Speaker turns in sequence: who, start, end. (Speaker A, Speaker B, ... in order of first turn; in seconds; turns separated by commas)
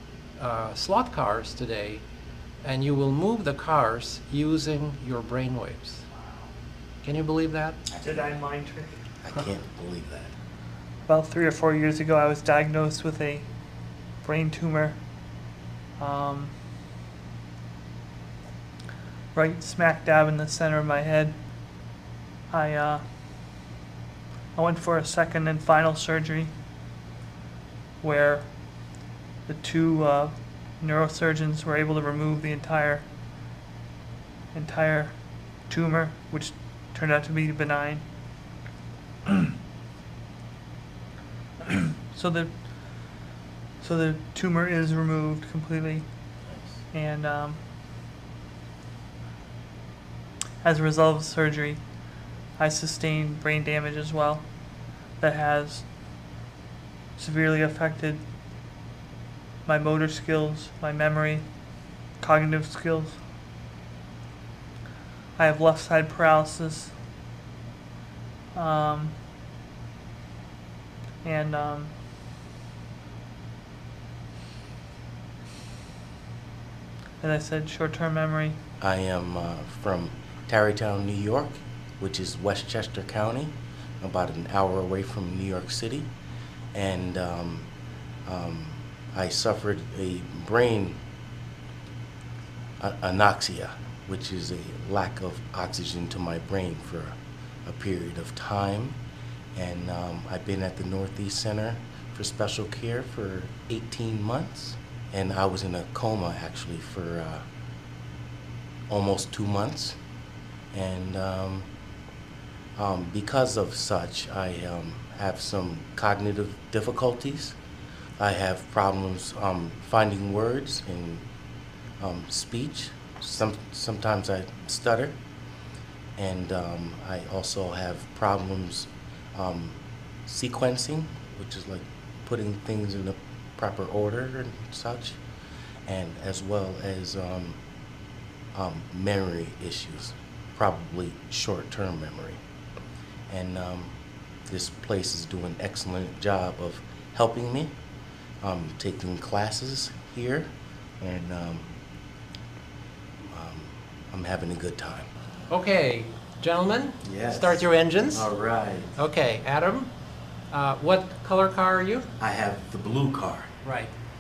Speaker A: 0.4-2.0, Speaker A: 2.6-6.0, Speaker A: 7.0-7.8, Speaker B: 7.9-8.3, Speaker C: 8.0-9.1, Speaker B: 9.2-10.3, Speaker C: 11.1-16.6, Speaker C: 19.3-21.9, Speaker C: 22.5-23.2, Speaker C: 24.5-26.6, Speaker C: 28.0-33.1, Speaker C: 34.5-38.1, Speaker C: 41.7-47.6, Speaker B: 46.5-46.8, Speaker C: 50.6-55.9, Speaker C: 57.2-58.3, Speaker C: 59.6-63.2, Speaker C: 65.4-67.0, Speaker C: 68.5-69.2, Speaker C: 71.2-72.0, Speaker C: 77.2-78.6, Speaker B: 78.8-86.1, Speaker B: 86.7-87.7, Speaker B: 88.2-91.0, Speaker B: 92.8-99.0, Speaker B: 99.5-107.5, Speaker B: 108.9-110.0, Speaker B: 110.7-111.7, Speaker B: 112.8-117.6, Speaker B: 118.2-121.2, Speaker B: 122.0-125.2, Speaker B: 126.2-135.2, Speaker B: 135.9-137.6, Speaker B: 138.5-142.4, Speaker B: 143.3-144.0, Speaker B: 144.5-147.7, Speaker B: 148.4-151.7, Speaker B: 153.3-155.1, Speaker A: 155.5-158.3, Speaker B: 157.0-159.0, Speaker A: 159.0-159.9, Speaker A: 160.5-162.1, Speaker B: 162.2-163.5, Speaker A: 163.6-163.9